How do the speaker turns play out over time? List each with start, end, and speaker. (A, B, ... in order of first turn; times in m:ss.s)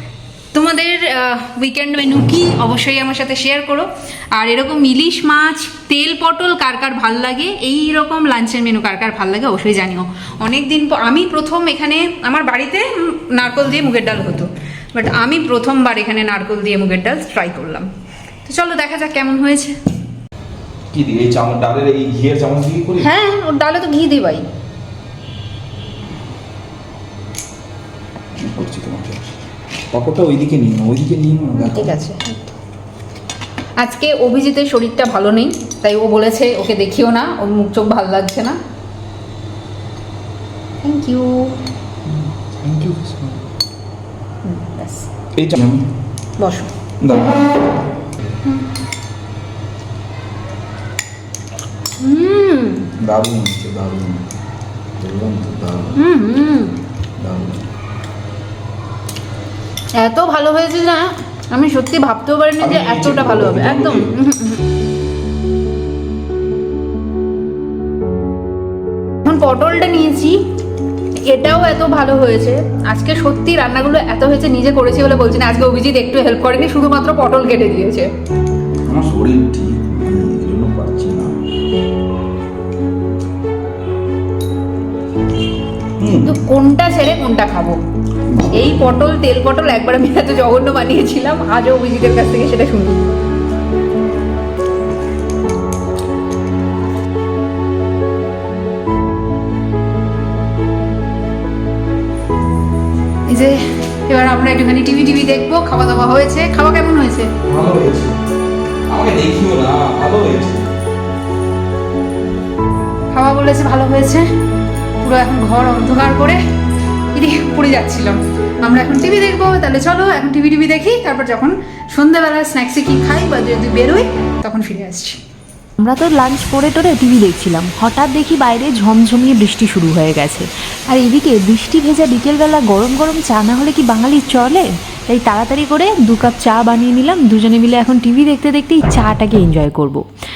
0:00.5-0:17.9 A
0:18.4-0:19.8 A
0:20.9-0:23.1 B
0:23.0-0:24.4 A
0:28.4-0:29.3 B
0:29.9-0:31.9 B
0:31.6-0:32.5 A
0:33.8-0:38.6 A
0:40.8-0:41.6 A
0:42.1-0:43.4 B
0:44.4-0:45.1 A
0:45.4-0:45.9 B
0:46.4-0:46.7 A
0:47.0-0:47.4 B
0:52.0-0:52.9 A
0:53.0-0:54.3 B
0:55.0-0:56.0 B
0:56.0-0:56.8 A
0:57.2-0:57.6 B
1:00.0-1:04.6 A
1:02.6-1:04.1 B
1:09.2-1:10.4 A
1:11.2-1:18.1 A
1:18.8-1:21.4 B
1:26.0-1:26.4 B
1:26.2-1:27.8 A
1:28.3-1:28.7 B
1:28.5-1:33.1 A
1:43.3-1:47.3 A
1:47.4-1:48.2 B
1:48.9-1:50.7 B
1:53.1-1:54.3 A
1:55.0-1:56.4 A
1:57.1-2:05.2 A
2:05.8-2:20.0 C